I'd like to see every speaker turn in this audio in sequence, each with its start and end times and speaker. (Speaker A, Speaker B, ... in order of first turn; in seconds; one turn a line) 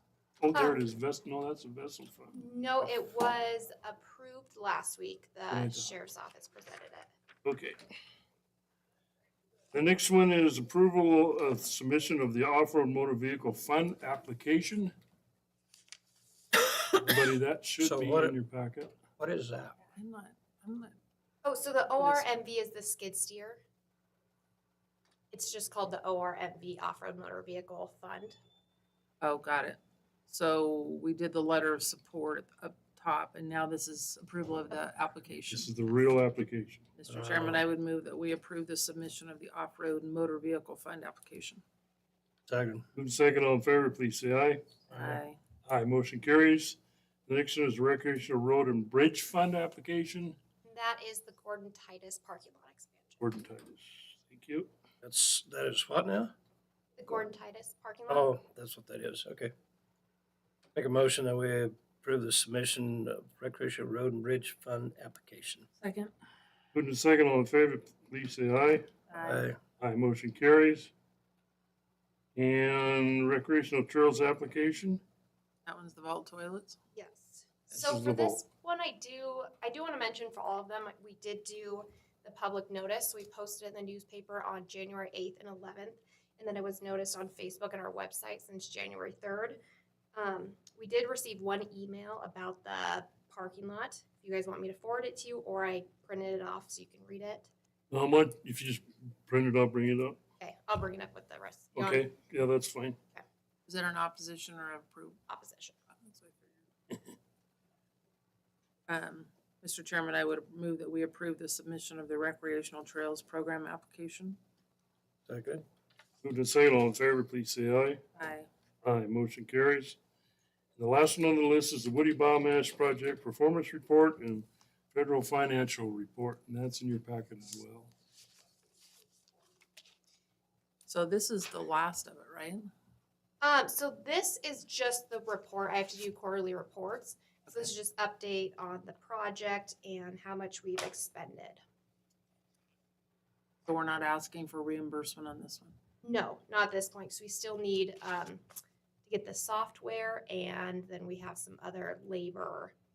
Speaker A: 0.4-2.4
Speaker B: 0.5-0.8
Speaker B: 2.3-7.1
Speaker A: 5.5-5.9
Speaker A: 7.4-7.8
Speaker A: 9.7-14.9
Speaker A: 17.0-19.0
Speaker C: 17.8-18.4
Speaker C: 19.2-19.8
Speaker D: 19.9-20.9
Speaker B: 21.4-23.6
Speaker D: 22.0-22.3
Speaker B: 25.3-28.4
Speaker D: 29.2-35.7
Speaker A: 35.5-36.9
Speaker D: 37.0-41.6
Speaker C: 37.1-37.6
Speaker C: 42.5-42.9
Speaker A: 43.0-44.7
Speaker C: 44.9-45.2
Speaker D: 44.9-45.4
Speaker A: 45.7-50.4
Speaker B: 50.6-53.2
Speaker A: 53.2-54.7
Speaker C: 55.0-56.3
Speaker B: 57.0-58.3
Speaker C: 58.1-59.5
Speaker C: 60.8-65.7
Speaker D: 65.8-66.1
Speaker A: 66.7-68.9
Speaker D: 69.1-69.5
Speaker C: 69.2-69.6
Speaker A: 69.8-70.9
Speaker A: 72.4-75.0
Speaker D: 75.7-76.8
Speaker B: 77.0-89.6
Speaker A: 77.7-78.4
Speaker B: 90.2-97.5
Speaker A: 97.9-100.2
Speaker B: 100.4-102.1
Speaker A: 101.8-103.0
Speaker D: 103.7-105.2
Speaker B: 105.3-105.8
Speaker D: 106.0-106.5
Speaker D: 108.9-114.4
Speaker C: 115.3-115.6
Speaker A: 116.2-118.0
Speaker D: 118.2-118.5
Speaker A: 118.8-120.0
Speaker A: 120.8-127.9
Speaker D: 130.9-132.7
Speaker B: 133.4-141.6
Speaker D: 143.7-145.8
Speaker B: 146.0-148.4
Speaker B: 149.1-152.7